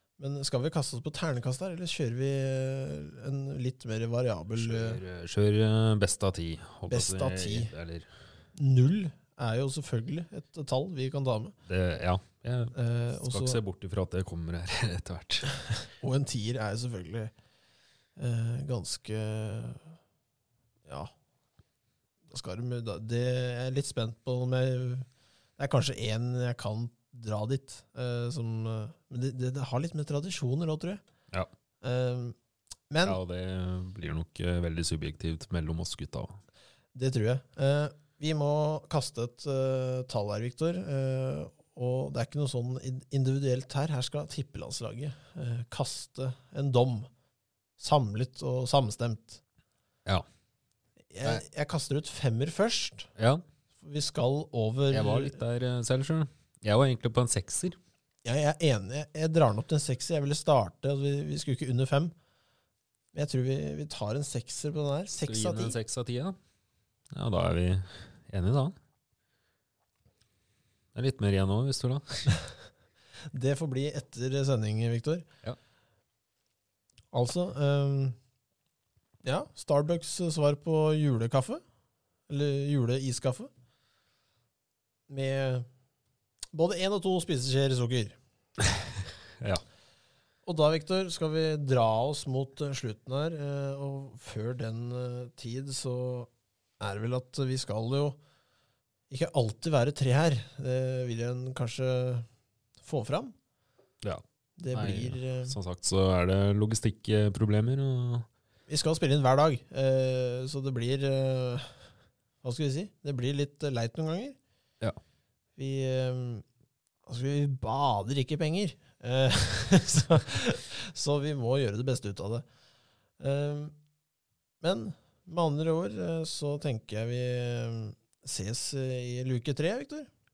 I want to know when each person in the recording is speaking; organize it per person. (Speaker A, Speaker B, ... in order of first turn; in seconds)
Speaker A: 0.2-5.0, 6.9-7.7, 8.6-11.5, 12.7-13.6, 16.0-17.3, 18.2-20.0, 20.9-21.1, 22.3-25.1, 25.6-31.0, 31.8-32.3, 32.9-33.2, 36.9-47.1, 47.8-49.4, 51.1-53.1, 53.8-55.4, 58.2-62.1, 63.1-65.8, 73.3-75.2, 77.1-78.2, 79.2-81.6, 82.3-83.5, 85.1-85.7, 86.5-88.2, 90.4-98.2, 99.1-102.2, 102.8-103.3, 104.6-105.5, 108.7-111.8, 112.4-114.4, 115.5-116.4, 117.0-122.4, 123.2-123.7, 124.6-130.1
Speaker B: 4.5-8.1, 11.7-15.5, 33.0-36.4, 53.2-53.4, 54.9-57.8, 65.2-66.3, 67.1-68.7, 70.9-72.4, 104.0-108.3